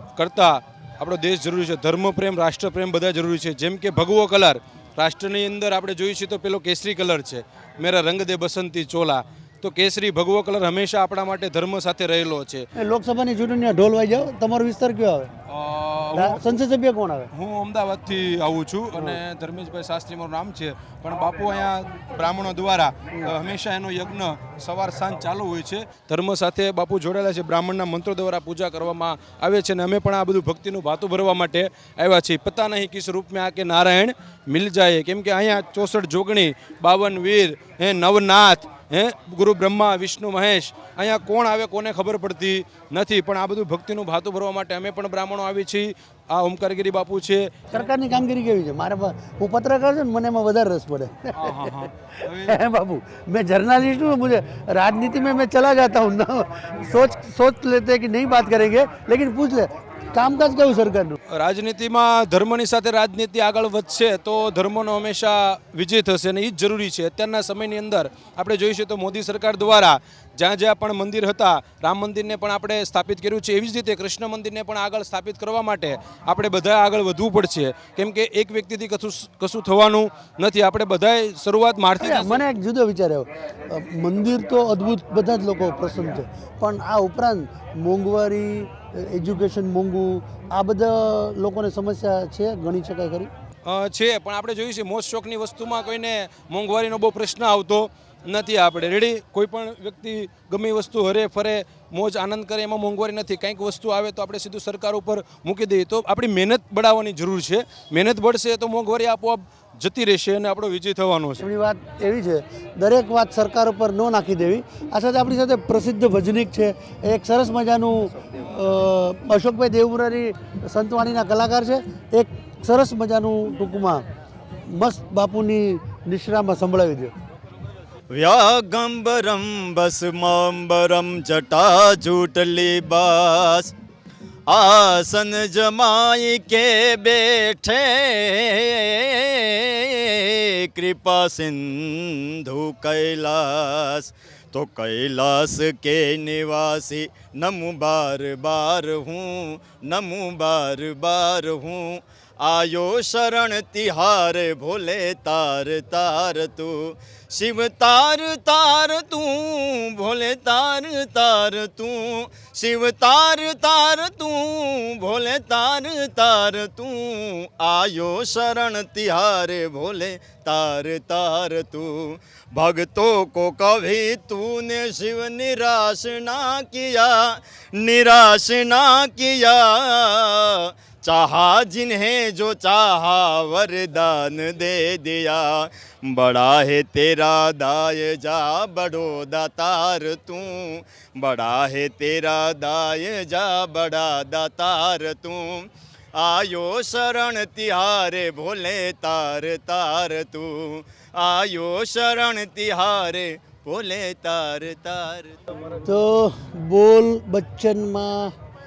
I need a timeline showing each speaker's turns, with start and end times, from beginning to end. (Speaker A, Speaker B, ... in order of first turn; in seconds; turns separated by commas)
Speaker A: 0.2-12.7, Speaker B: 12.8-15.3, Speaker A: 15.5-16.4, Speaker B: 16.1-17.3, Speaker A: 17.3-47.5, Speaker B: 47.7-61.2, Speaker A: 51.4-52.6, Speaker A: 61.3-82.4, Speaker B: 82.0-93.3, Speaker A: 93.7-111.5, Speaker B: 111.4-124.0, Speaker B: 124.7-127.1, Speaker C: 128.1-133.7, Speaker C: 134.5-205.3, Speaker B: 205.8-208.3